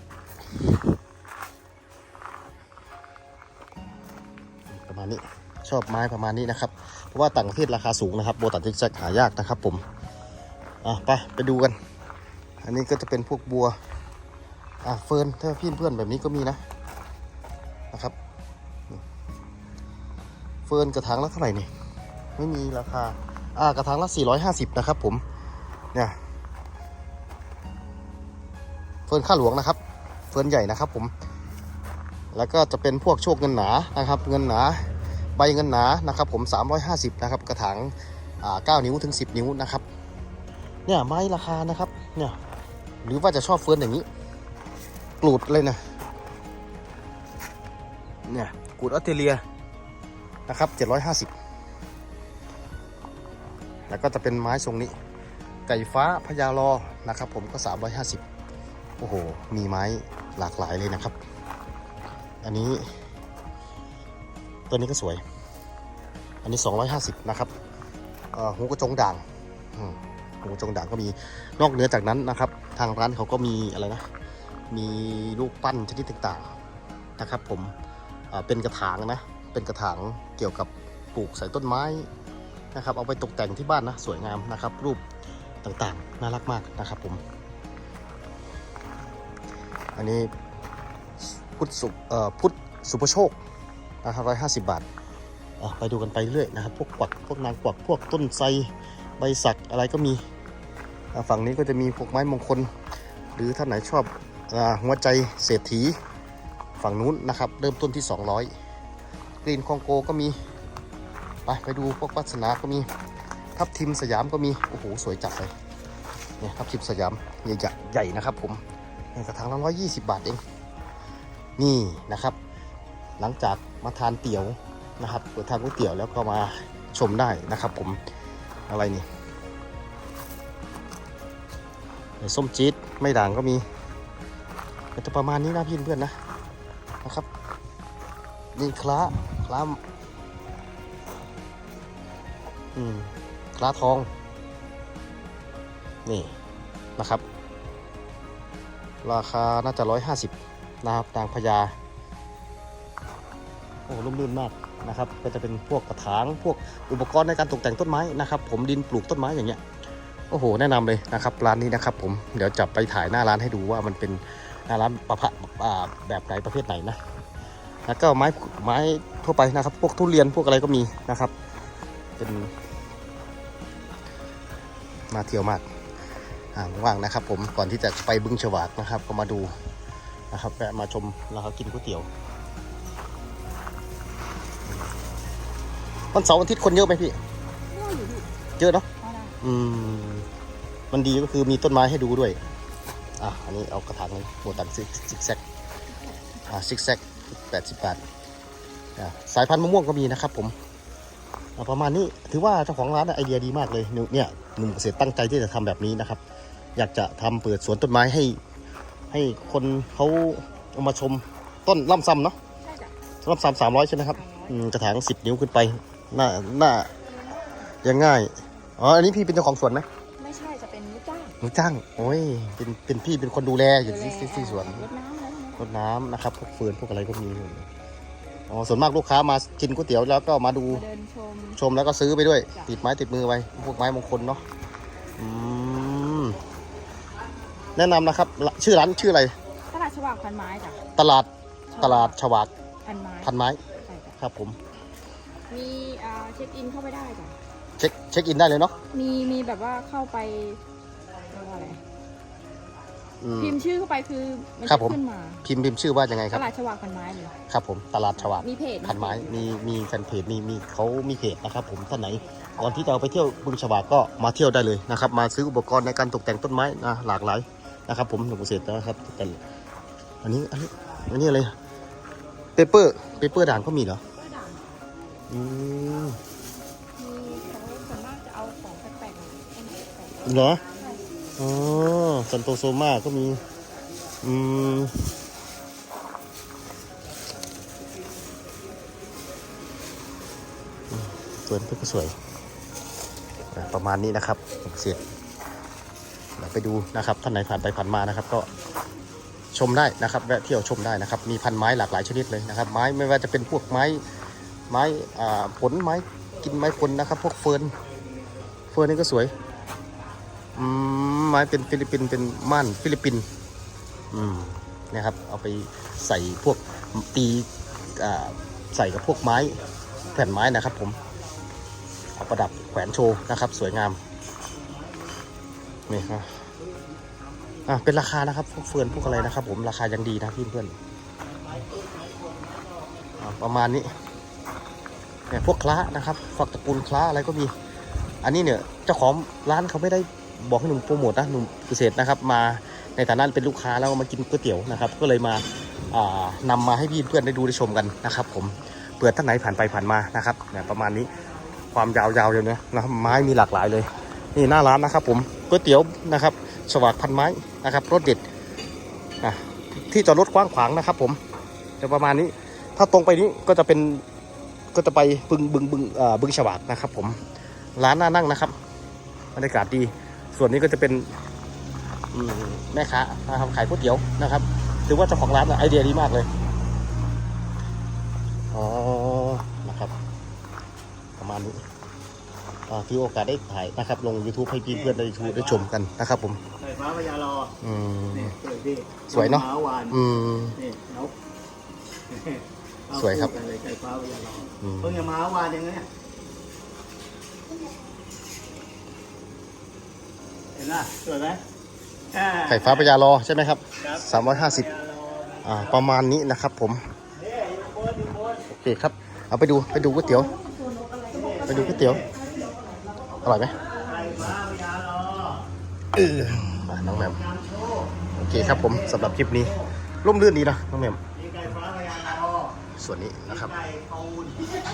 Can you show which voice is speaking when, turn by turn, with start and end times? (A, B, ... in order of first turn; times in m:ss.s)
0:04.7-0:09.8 A
0:10.8-0:11.8 A
0:12.6-0:13.8 A
0:14.8-0:16.6 A
0:20.7-0:21.7 A
0:22.4-0:25.2 A
0:29.1-0:29.8 A
0:30.3-0:31.1 A
0:32.3-0:34.8 A
0:35.4-0:39.8 A
0:40.8-0:42.4 A
0:43.0-0:44.1 A
0:45.2-0:45.8 A
0:48.3-0:49.4 A
0:50.5-0:51.3 A
0:53.9-0:54.9 A
0:55.7-0:58.2 A
0:59.0-1:01.2 A
1:02.4-1:02.9 A
1:04.7-1:05.2 A
1:06.4-1:07.5 A
1:08.3-1:14.1 A
1:14.7-1:16.5 A
1:17.2-1:17.7 A
1:18.3-1:22.1 A
1:22.7-1:25.0 A
1:25.6-1:27.2 A
1:29.9-1:30.3 A
1:31.2-1:33.4 A
1:34.0-1:34.8 A
1:35.6-1:40.2 A
1:41.1-1:42.7 A
1:43.3-1:46.0 A
1:46.8-1:48.5 A
1:49.4-1:50.4 A
1:51.4-1:52.9 A
1:53.6-1:55.5 A
1:56.4-1:58.6 A
1:59.1-2:00.4 A
2:01.6-2:02.4 A
2:03.2-2:08.0 A
2:08.7-2:09.0 A
2:12.2-2:13.6 A
2:15.0-2:16.2 A
2:18.6-2:19.8 A
2:22.7-2:24.1 A
2:26.0-2:26.3 A
2:27.0-2:27.2 A
2:29.0-2:31.7 A
2:33.9-2:39.6 A
2:40.3-2:47.0 A
2:47.9-2:51.3 A
2:52.2-2:52.5 A
2:55.1-2:55.6 A
2:56.5-2:59.5 A
3:00.3-3:02.1 A
3:06.1-3:07.2 A
3:07.7-3:08.3 B
3:08.6-3:08.8 A
3:09.0-3:09.4 B
3:09.4-3:10.3 A
3:10.9-3:12.4 A
3:13.2-3:15.4 A
3:16.5-3:18.0 A
3:19.0-3:20.5 A
3:21.6-3:26.2 A
3:26.8-3:28.4 A
3:29.1-3:32.4 A
3:32.6-3:32.9 B
3:33.2-3:36.9 A
3:34.1-3:34.7 B
3:37.8-3:39.8 A
3:40.2-3:41.4 B
3:41.4-3:44.8 A
3:43.8-3:45.7 B
3:45.6-3:47.7 A
3:48.5-3:50.8 A
3:50.7-3:51.6 B
3:51.6-3:54.4 A
3:55.2-3:56.4 A
3:57.7-3:59.3 A
3:59.7-4:00.8 B
4:01.0-4:02.5 A
4:01.7-4:02.2 B
4:02.8-4:04.2 B
4:03.2-4:03.6 A
4:04.2-4:04.6 A
4:05.5-4:07.4 B
4:07.8-4:08.7 A
4:08.9-4:10.6 B
4:11.3-4:11.8 B
4:13.2-4:13.6 A
4:13.4-4:15.4 B
4:14.7-4:16.5 A
4:16.3-4:17.4 B
4:17.5-4:29.4 A
4:18.2-4:19.3 B
4:22.3-4:22.6 B
4:30.2-4:31.5 A
4:32.6-4:34.0 A
4:34.1-4:34.8 B
4:35.3-4:36.2 A
4:37.0-4:40.2 B
4:40.2-4:40.6 A
4:40.8-4:41.0 B
4:41.4-4:43.4 A
4:44.2-4:45.1 A
4:50.9-4:52.1 A
4:53.5-4:55.0 A
4:56.4-4:58.5 A
4:59.5-5:04.0 A
5:04.7-5:07.8 A
5:08.7-5:09.4 A
5:10.6-5:13.3 A
5:14.1-5:21.0 A
5:22.2-5:24.0 A
5:25.9-5:26.4 A
5:27.6-5:30.8 A
5:33.2-5:34.0 A
5:35.3-5:37.5 A
5:38.2-5:51.1 A
5:51.7-5:58.2 A
5:59.2-6:01.2 A
6:01.8-6:04.0 A
6:04.7-6:07.2 A
6:07.8-6:08.6 A
6:09.4-6:11.2 A
6:12.1-6:16.3 A
6:18.5-6:19.9 A
6:21.2-6:21.6 A
6:22.7-6:26.4 A
6:26.6-6:27.5 C
6:27.6-6:28.4 A
6:28.4-6:28.9 C
6:29.1-6:30.6 A
6:29.5-6:29.9 C
6:30.6-6:31.1 C
6:32.9-6:33.4 A
6:33.4-6:34.5 C
6:34.6-6:35.1 A
6:35.1-6:35.9 C
6:40.6-6:41.4 C
6:42.3-6:44.8 A
6:45.4-6:46.9 A
6:48.4-6:50.3 A
6:50.2-6:52.9 B
6:51.4-6:52.1 A
6:53.2-6:53.6 A
6:53.7-6:54.1 B
6:54.1-6:54.5 A
6:54.5-6:55.2 C
6:56.0-6:57.3 A
6:58.1-7:01.0 A
7:01.3-7:02.5 C
7:02.8-7:03.6 A
7:03.7-7:04.3 C